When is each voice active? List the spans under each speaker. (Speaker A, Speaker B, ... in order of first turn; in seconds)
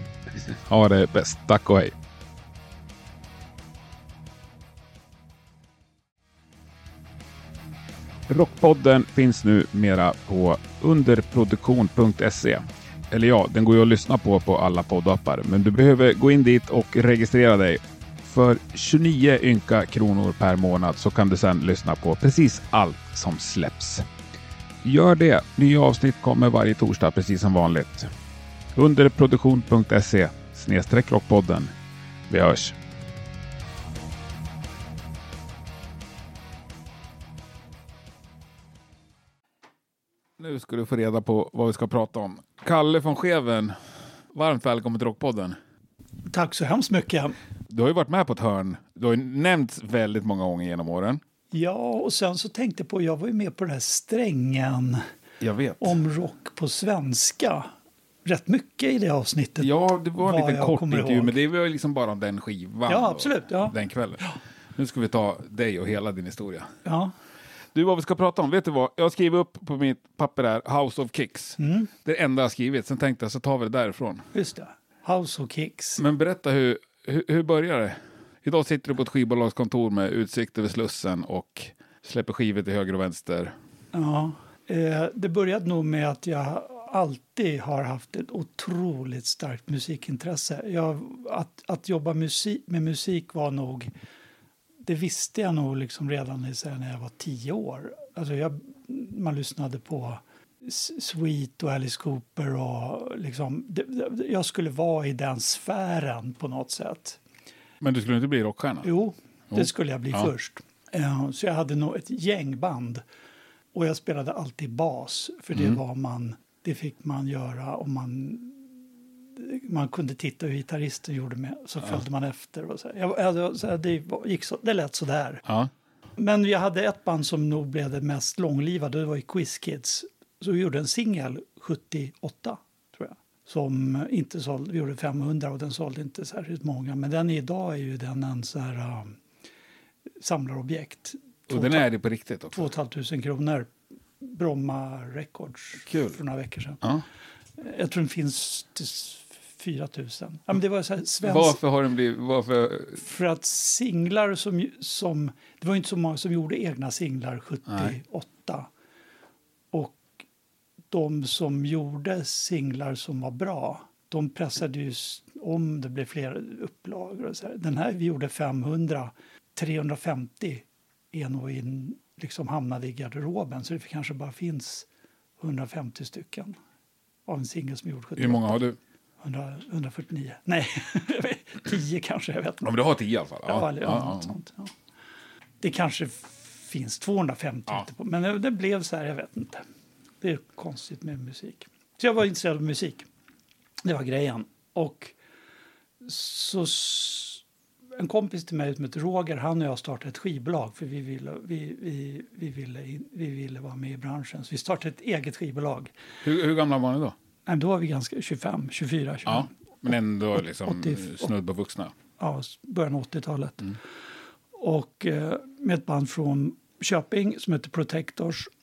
Speaker A: 0.5-1.9, 8.3-24.0, 24.8-28.1, 28.7-31.7, 32.3-32.8, 40.4-43.8, 44.3-45.6, 47.7-51.2, 55.4-56.0, 59.6-66.7, 67.7-74.3, 76.0-83.5, 107.8-108.9, 109.5-110.3, 125.5-125.7, 141.5-142.7, 145.9-146.2, 151.2-153.0, 178.2-178.8, 182.6-184.3, 206.2-207.1, 209.2-211.9
Speaker B: 46.3-47.3, 51.5-55.0, 55.8-57.7, 58.2-61.4, 62.9-64.3, 66.8-67.1, 71.6-71.9, 74.3-76.0, 83.9-93.9, 94.8-107.2, 108.8-113.0, 113.7-118.7, 119.3-125.4, 126.2-139.2, 140.2-141.9, 142.5-143.7, 144.2-146.8, 147.6-151.6, 153.0-158.7, 159.7-160.1, 160.9-174.9, 175.4-176.5, 177.2-178.6, 179.2-182.8, 183.4-184.7, 185.6-189.6, 190.2-193.1, 193.8-195.1, 196.0-197.4, 198.0-205.9, 207.4-209.5, 210.4-211.3, 212.2-213.8, 214.6-218.5